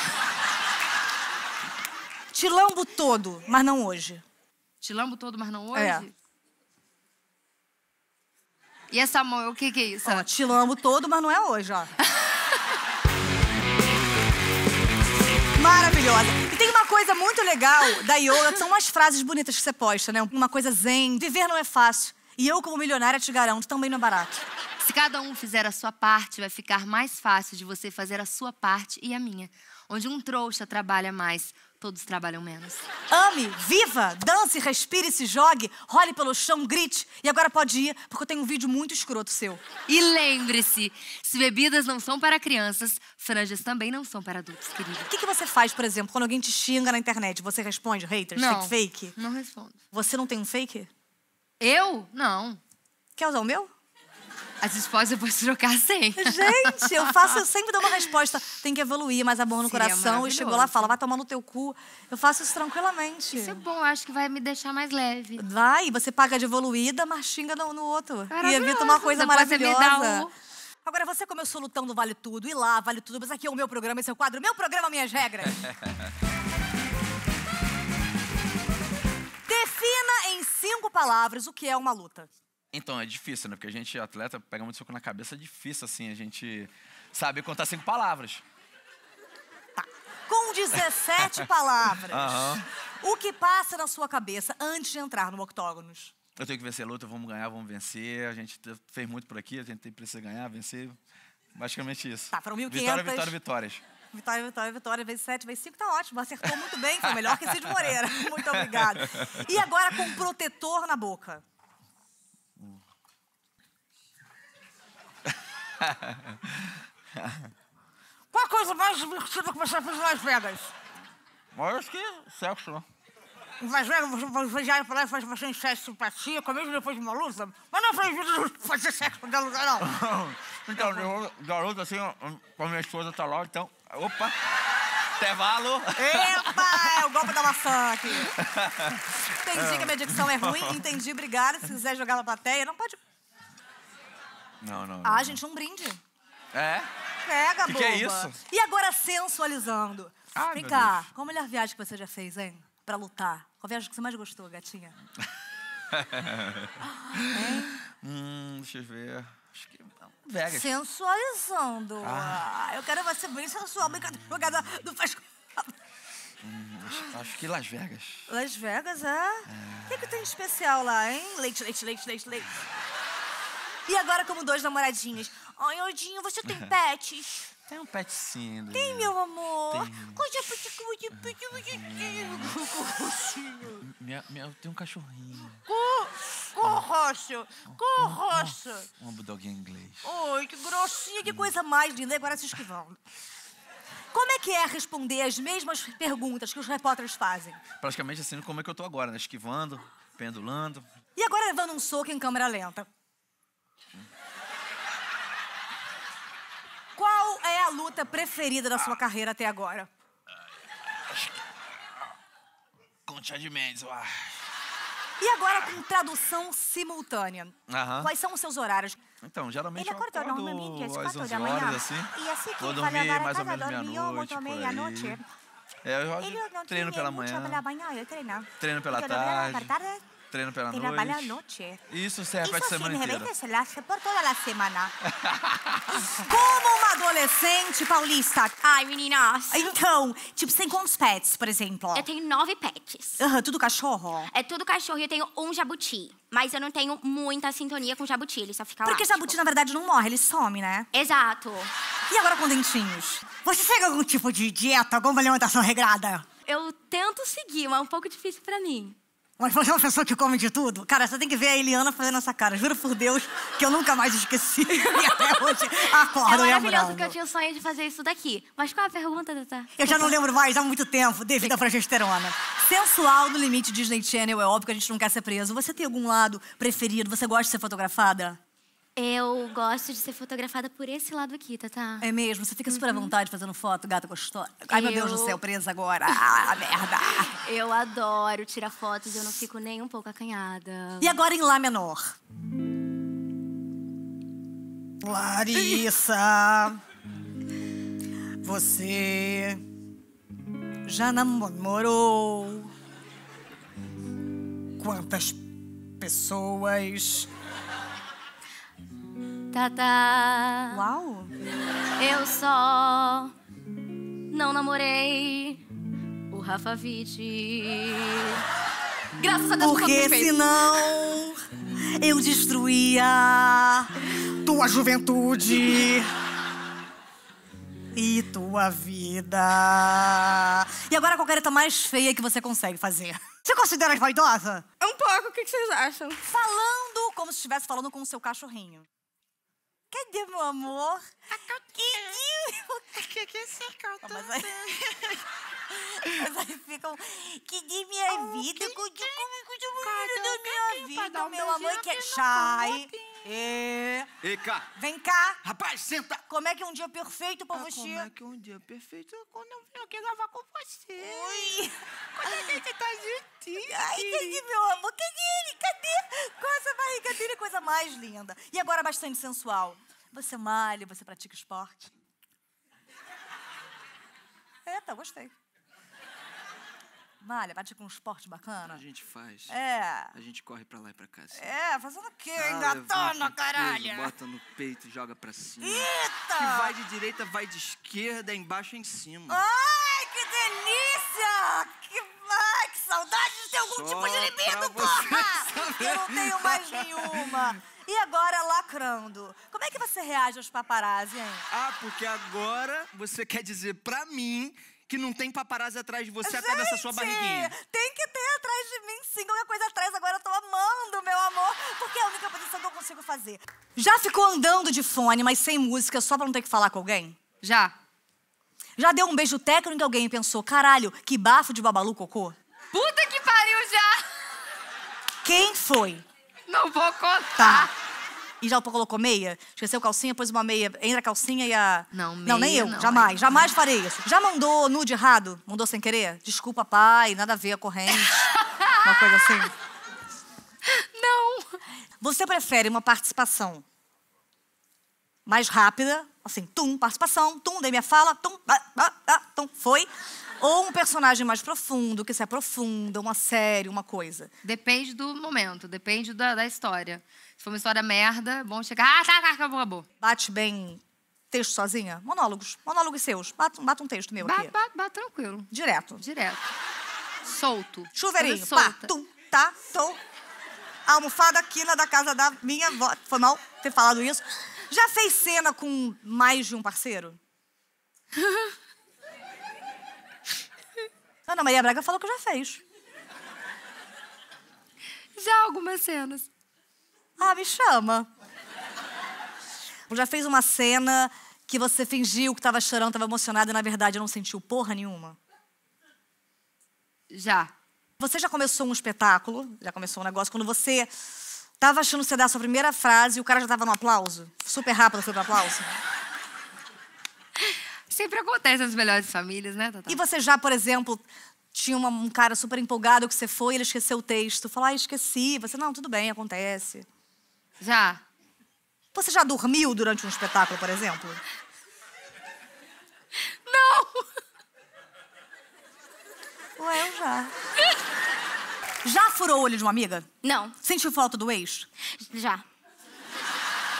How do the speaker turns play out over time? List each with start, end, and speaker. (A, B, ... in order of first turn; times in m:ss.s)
0:02.3-0:04.2 A
0:04.8-0:06.1 B
0:05.7-0:06.0 A
0:08.9-0:10.3 B
0:10.0-0:11.9 A
0:15.6-0:24.4 A
0:24.8-0:32.8 B
0:33.1-0:39.6 A
0:39.9-0:45.1 B
0:45.1-0:49.2 A
0:48.4-0:49.8 B
0:49.9-0:50.9 A
0:51.6-0:52.6 B
0:53.2-0:53.7 A
0:54.6-0:57.3 B
0:56.2-1:03.6 A
0:59.6-1:00.9 B
1:03.3-1:05.4 B
1:05.4-1:10.3 A
1:08.3-1:10.3 B
1:10.8-1:15.6 A
1:19.5-1:22.3 A
1:22.7-1:28.4 C
1:29.8-1:36.1 A
1:32.1-1:32.6 C
1:36.4-1:41.0 C
1:41.6-1:43.8 C
1:42.3-1:43.4 A
1:44.1-1:51.4 A
1:47.2-1:47.8 C
1:48.5-1:49.4 C
1:55.8-1:57.5 C
1:58.3-2:00.7 A
2:01.5-2:02.8 C
2:03.6-2:09.9 A
2:09.8-2:14.4 C
2:10.8-2:11.1 A
2:15.2-2:17.1 C
2:16.0-2:18.4 A
2:18.3-2:20.9 C
2:19.4-2:23.0 A
2:24.6-2:25.4 C
2:25.0-2:26.0 A
2:26.5-2:26.9 C
2:27.2-2:35.0 A
2:27.6-2:28.4 C
2:30.4-2:31.1 C
2:35.9-2:40.7 C
2:37.3-2:37.8 A
2:40.5-2:45.7 A
2:42.0-2:42.4 C
2:46.4-2:48.3 C
2:48.3-2:52.5 A
2:49.5-2:50.1 C
2:53.9-2:57.5 A
2:57.7-2:59.1 C
2:58.7-3:03.8 A
2:59.7-3:00.2 C
3:01.1-3:02.5 C
3:03.8-3:05.6 C
3:05.7-3:08.9 A
3:07.7-3:10.1 C
3:10.0-3:13.0 A
3:14.1-3:17.6 A
3:17.8-3:20.8 C
3:21.2-3:22.9 A
3:27.0-3:29.9 A
3:33.1-3:34.4 C
3:35.2-3:39.0 A
3:37.7-3:38.1 C
3:39.2-3:45.2 C
3:39.8-3:45.2 A
3:45.8-3:47.6 C
3:46.2-3:50.1 A
3:48.6-3:53.3 C
3:50.7-3:51.8 A
3:52.4-3:54.9 A
3:55.0-3:56.2 C
3:56.2-3:58.6 A
3:58.6-3:59.7 D
3:59.5-4:02.1 A
4:02.0-4:03.2 D
4:03.2-4:04.3 A
4:04.3-4:09.4 D
4:08.8-4:10.9 A
4:10.9-4:11.7 D
4:12.1-4:16.3 A
4:16.5-4:19.0 D
4:19.4-4:27.2 A
4:25.0-4:30.1 D
4:29.8-4:38.4 A
4:39.0-4:42.1 D
4:42.0-4:47.3 A
4:44.7-4:45.4 D
4:47.4-4:51.1 D
4:51.0-4:52.1 A
4:55.0-4:56.8 A
4:58.4-4:59.6 A
5:00.9-5:02.7 A
5:04.8-5:05.5 A
5:06.0-5:07.3 A
5:09.5-5:10.8 D
5:10.7-5:11.3 A
5:12.0-5:13.3 D
5:14.3-5:15.6 D
5:16.3-5:18.4 D
5:19.2-5:20.7 D
5:19.6-5:21.4 A
5:22.0-5:26.1 A
5:27.9-5:34.7 A
5:34.8-5:35.8 D
5:36.2-5:38.9 A
5:39.9-5:42.9 A
5:43.0-5:45.2 E
5:44.0-5:44.6 A
5:45.7-5:54.1 A
5:48.2-5:53.2 E
5:54.2-5:54.7 E
5:54.8-5:55.4 A
5:55.4-5:56.2 E
5:56.3-5:58.1 A
5:57.5-6:01.6 E
6:01.0-6:02.6 A
6:02.2-6:04.4 E
6:03.6-6:11.9 A
6:14.7-6:15.3 A
6:17.2-6:18.8 A
6:18.7-6:19.6 E
6:19.5-6:20.1 A
6:20.1-6:21.5 E
6:21.3-6:24.1 A
6:22.4-6:29.4 E
6:25.6-6:26.7 A
6:29.3-6:41.4 A
6:33.6-6:37.3 E
6:41.5-6:47.6 E
6:46.2-6:57.2 A
6:57.4-6:57.8 B
6:58.8-7:02.4 A
7:02.7-7:04.0 B
7:05.2-7:06.1 A
7:06.5-7:07.7 B
7:07.4-7:07.7 A
7:08.4-7:19.5 A
7:11.9-7:13.5 B
7:20.7-7:21.6 B
7:22.0-7:23.6 A
7:25.3-7:34.3 A
7:34.4-7:39.9 B
7:40.0-7:44.5 A
7:44.2-7:46.5 B
7:45.5-7:46.0 A
7:47.3-7:48.9 B
7:48.0-7:50.0 A
7:50.9-7:57.2 A
8:01.3-8:02.6 A
8:05.2-8:06.3 B
8:07.2-8:08.1 A
8:09.9-8:15.2 A
8:17.1-8:17.5 B
8:18.0-8:20.9 A
8:21.6-8:25.7 A
8:27.5-8:30.0 B
8:29.9-8:36.9 A
8:37.6-8:38.0 B
8:38.9-8:41.2 A
8:43.5-8:44.1 B
8:46.6-8:47.3 A
8:48.8-8:50.1 A
8:50.2-8:50.6 D
8:50.6-8:51.7 A
8:51.9-8:52.4 D